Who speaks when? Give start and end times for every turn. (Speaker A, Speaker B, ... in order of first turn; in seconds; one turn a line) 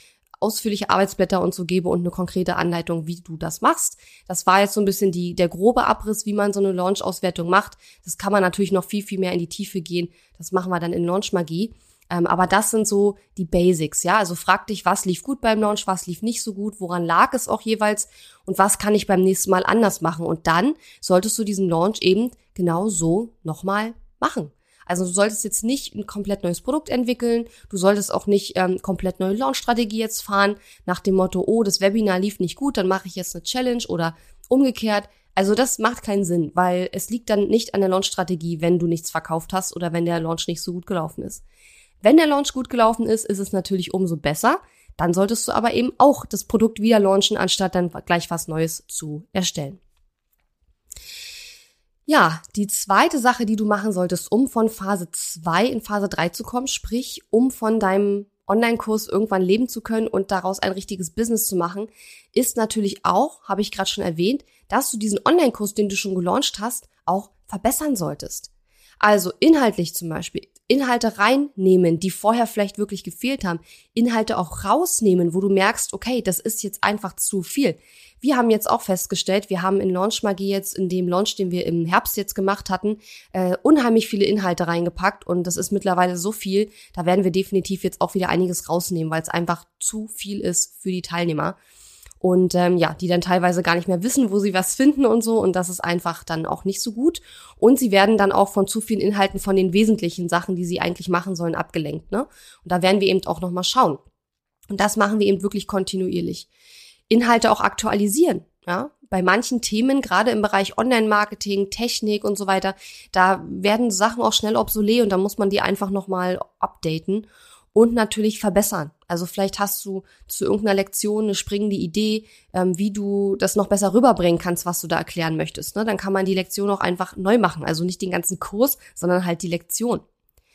Speaker A: 0.4-41.4
Speaker A: 42.0-49.8
Speaker A: 52.1-68.5
Speaker A: 69.0-91.6
Speaker A: 92.2-104.0
Speaker A: 104.7-106.5
Speaker A: 107.1-130.0